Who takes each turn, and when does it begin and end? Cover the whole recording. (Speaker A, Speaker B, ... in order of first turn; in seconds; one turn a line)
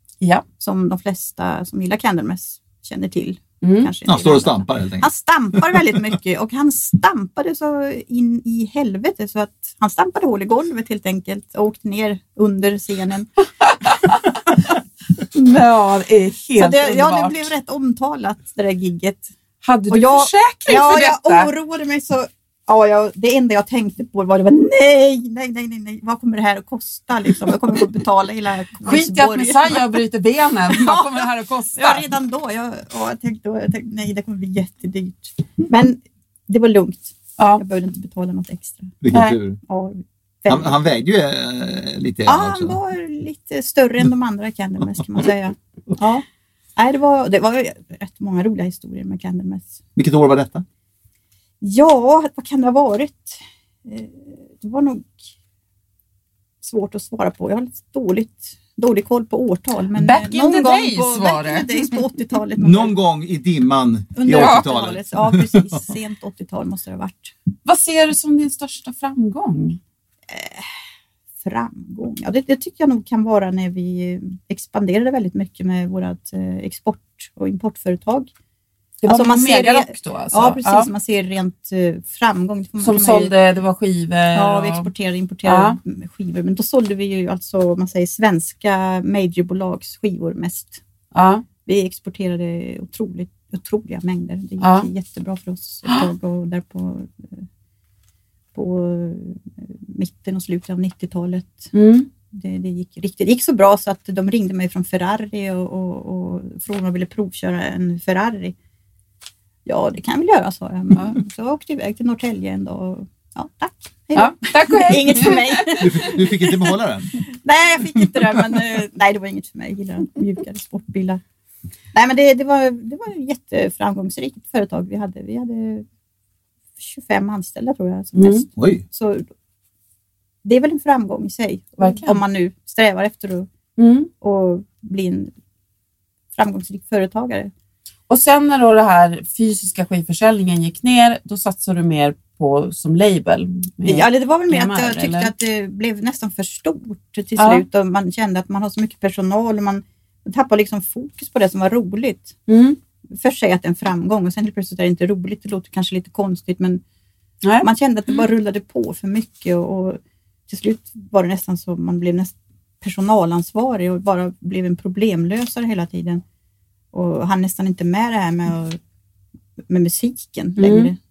Speaker A: 0.6-13.3
Speaker B: 3.6-3.9
Speaker C: 4.0-5.1
Speaker B: 13.6-14.6
Speaker B: 15.2-17.5
Speaker A: 16.6-19.3
Speaker B: 19.6-21.5
Speaker A: 19.9-29.9
Speaker B: 28.8-32.1
Speaker A: 30.7-39.0
Speaker B: 37.4-37.6
Speaker C: 39.0-39.6
Speaker B: 39.1-39.4
Speaker A: 39.6-40.9
Speaker C: 40.5-42.8
Speaker A: 42.3-46.2
Speaker A: 46.8-49.8
Speaker C: 50.0-50.6
Speaker A: 51.6-55.3
Speaker A: 56.6-63.0
Speaker B: 59.9-62.0
Speaker C: 62.6-65.8
Speaker A: 64.1-67.3
Speaker B: 64.3-64.7
Speaker B: 67.6-69.8
Speaker A: 70.3-70.7
Speaker A: 71.4-78.3
Speaker B: 79.0-80.9
Speaker A: 79.1-83.3
Speaker B: 82.8-84.9
Speaker A: 84.3-90.8
Speaker B: 85.4-85.8
Speaker B: 91.1-91.5
Speaker A: 91.6-97.4
Speaker B: 94.6-94.9
Speaker A: 98.5-101.7
Speaker B: 101.7-102.1
Speaker A: 102.3-108.5
Speaker A: 109.6-121.2
Speaker B: 114.1-115.8
Speaker C: 115.8-117.2
Speaker A: 121.9-125.8
Speaker A: 126.8-129.2
Speaker B: 128.1-128.4
Speaker C: 128.6-128.8
Speaker A: 130.4-133.5
Speaker B: 131.8-132.2
Speaker B: 133.8-134.1
Speaker A: 134.2-135.3
Speaker A: 136.3-137.5
Speaker B: 138.1-145.3
Speaker A: 143.8-152.3
Speaker B: 147.4-147.6
Speaker B: 152.5-152.8
Speaker A: 153.1-156.8
Speaker B: 157.4-157.7
Speaker A: 157.6-166.2
Speaker A: 166.9-168.8
Speaker A: 169.7-170.9
Speaker B: 170.6-170.9